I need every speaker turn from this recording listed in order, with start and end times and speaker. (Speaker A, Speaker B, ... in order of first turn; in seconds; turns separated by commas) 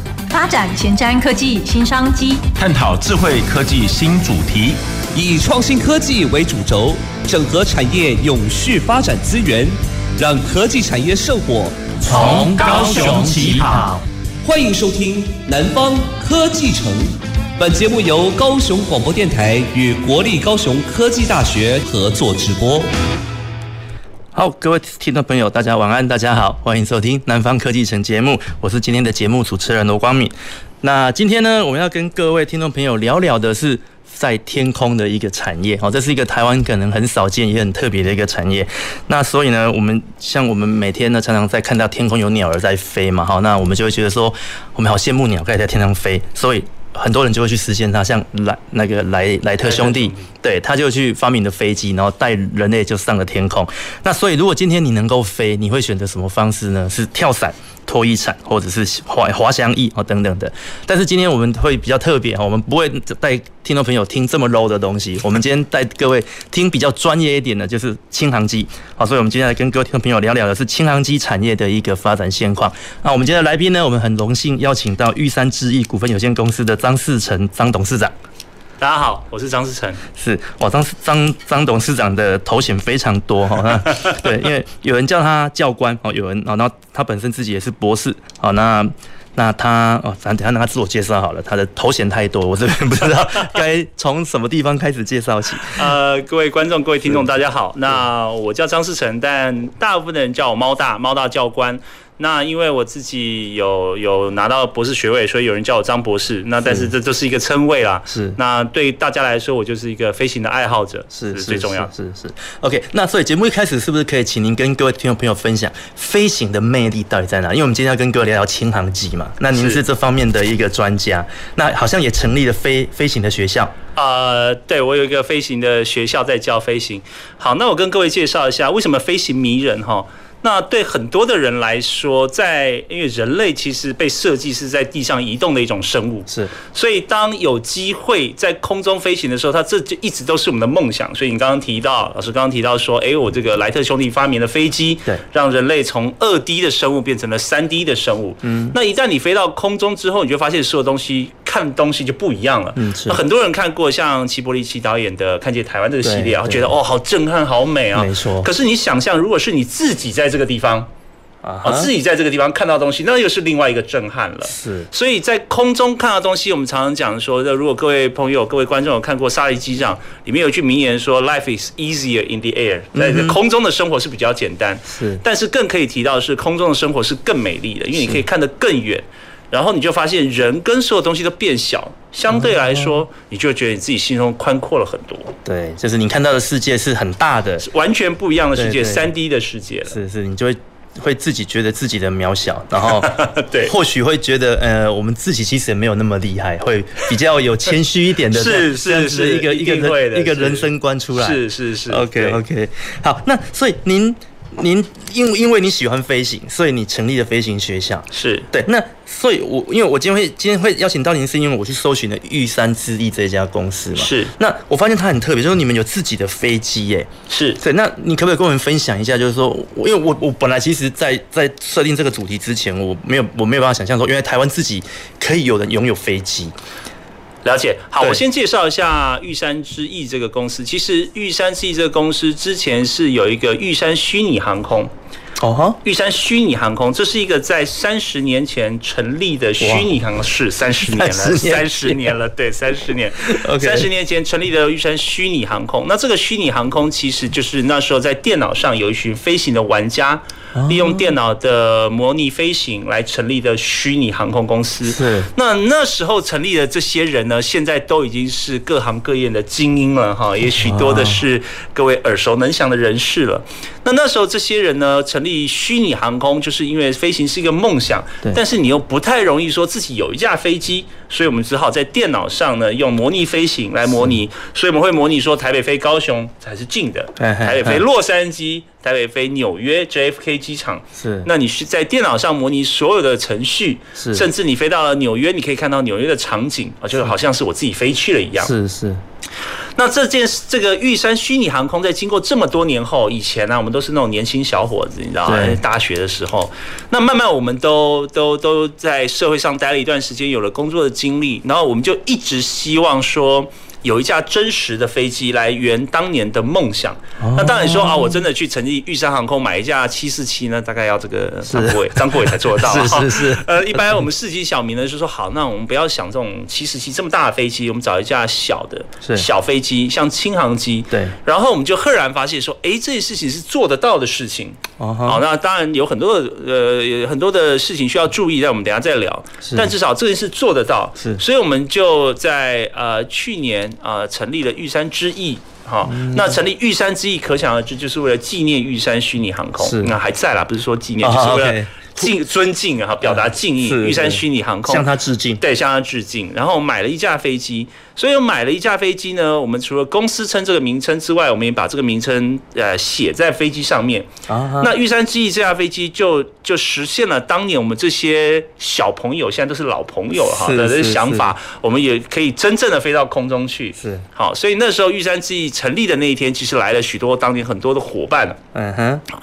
Speaker A: 0.3-2.5, Speaker B: 2.6-4.8, Speaker C: 5.2-13.5, Speaker D: 12.0-14.0, Speaker C: 14.4-22.9, Speaker D: 24.3-78.1, Speaker E: 49.6-50.3, Speaker E: 78.8-80.0, Speaker D: 80.2-95.9, Speaker E: 95.7-111.9, Speaker D: 106.6-106.9, Speaker D: 108.1-108.4, Speaker D: 111.1-123.8, Speaker E: 119.5-119.8, Speaker E: 124.0-160.9, Speaker D: 148.4-148.8, Speaker D: 152.8-153.2, Speaker D: 156.0-156.7, Speaker D: 157.9-158.5, Speaker D: 161.4-161.9, Speaker E: 161.6-185.3, Speaker D: 164.4-164.9, Speaker D: 172.9-173.4, Speaker D: 174.9-175.2, Speaker D: 182.3-183.1, Speaker D: 185.4-187.7, Speaker E: 187.6-190.0, Speaker D: 188.5-189.1, Speaker D: 189.9-226.5, Speaker E: 193.0-193.7, Speaker E: 198.3-202.4, Speaker E: 208.1-208.5, Speaker E: 214.0-214.3, Speaker E: 217.3-217.6, Speaker E: 227.4-234.9, Speaker D: 235.4-235.8, Speaker E: 235.8-288.5, Speaker D: 239.6-239.9, Speaker D: 240.8-242.2, Speaker D: 243.2-243.9, Speaker D: 250.6-251.1, Speaker D: 254.8-255.3, Speaker D: 260.5-261.2, Speaker D: 277.2-277.8, Speaker D: 280.9-281.3, Speaker D: 284.0-284.3, Speaker D: 288.4-289.0, Speaker E: 289.8-344.9, Speaker D: 295.3-295.6, Speaker D: 307.2-308.2, Speaker D: 311.5-314.0, Speaker D: 319.0-319.3, Speaker D: 320.9-321.2, Speaker D: 324.8-325.2, Speaker D: 329.4-329.7, Speaker D: 331.0-331.2, Speaker D: 335.9-336.4, Speaker D: 339.6-339.9, Speaker D: 341.0-342.1, Speaker D: 343.0-345.4, Speaker E: 345.4-368.4, Speaker D: 354.3-354.8, Speaker D: 360.2-361.3, Speaker D: 363.8-364.1, Speaker D: 368.5-369.0